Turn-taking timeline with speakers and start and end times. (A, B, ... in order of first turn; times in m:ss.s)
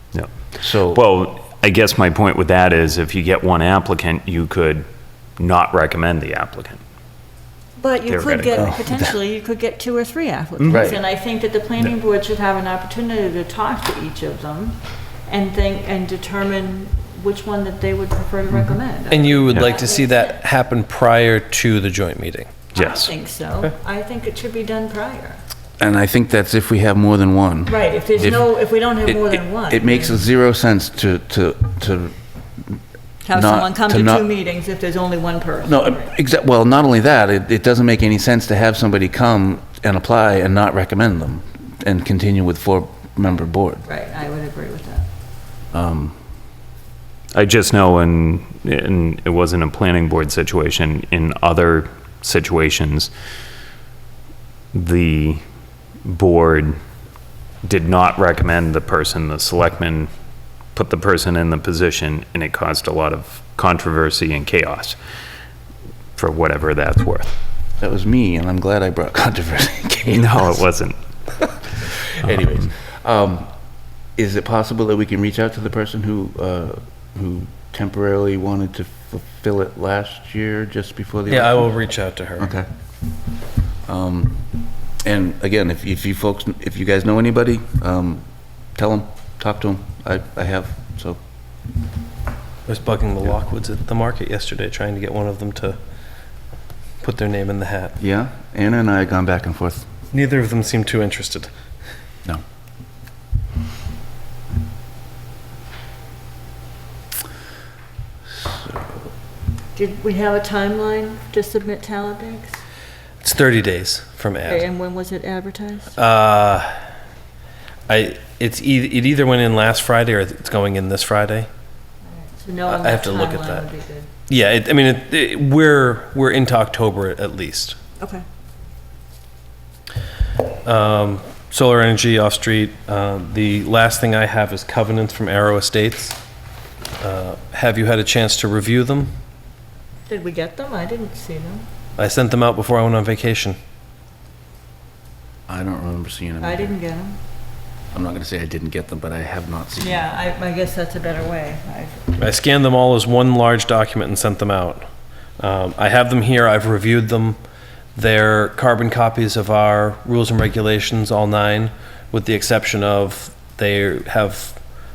0:00.1-0:06.8 A
0:00.6-0:01.0 B
0:07.8-0:20.4 C
0:08.1-0:08.8 A
0:08.5-0:09.1 B
0:10.6-0:11.0 A
0:10.7-0:11.0 B
0:19.1-0:23.1 D
0:22.8-0:25.4 C
0:25.8-0:28.4 B
0:27.7-0:30.2 C
0:29.1-0:32.2 B
0:33.2-0:36.1 C
0:33.3-0:34.3 B
0:35.6-0:43.8 B
0:43.8-0:45.1 C
0:45.7-0:46.2 B
0:47.3-0:53.1 A
0:54.7-0:55.4 A
0:56.0-0:56.7 A
0:57.6-1:00.1 A
1:00.7-1:05.0 A
1:06.2-1:07.4 A
1:07.8-1:10.6 B
1:10.1-1:11.0 A
1:11.8-1:13.5 B
1:14.2-1:21.7 B
1:21.3-1:22.5 D
1:22.4-1:22.7 B
1:23.9-1:24.5 B
1:25.0-1:31.2 B
1:32.7-1:35.8 D
1:37.0-1:37.9 D
1:38.0-1:39.9 B
1:40.1-1:41.5 D
1:48.4-1:48.9 B
1:49.7-1:52.6 C
1:53.2-1:54.6 D
1:54.4-1:55.9 C
1:56.0-1:56.7 D
1:57.9-2:01.5 D
2:02.1-2:04.1 C
2:02.7-2:03.6 D
2:04.3-2:07.8 D
2:10.6-2:16.2 D
2:17.0-2:19.1 D
2:20.1-2:21.7 C
2:22.0-2:23.6 D
2:25.5-2:26.8 B
2:26.4-2:27.2 C
2:27.9-2:30.1 B
2:29.8-2:32.1 C
2:32.2-2:34.8 D
2:35.4-2:37.4 D
2:38.0-2:44.6 D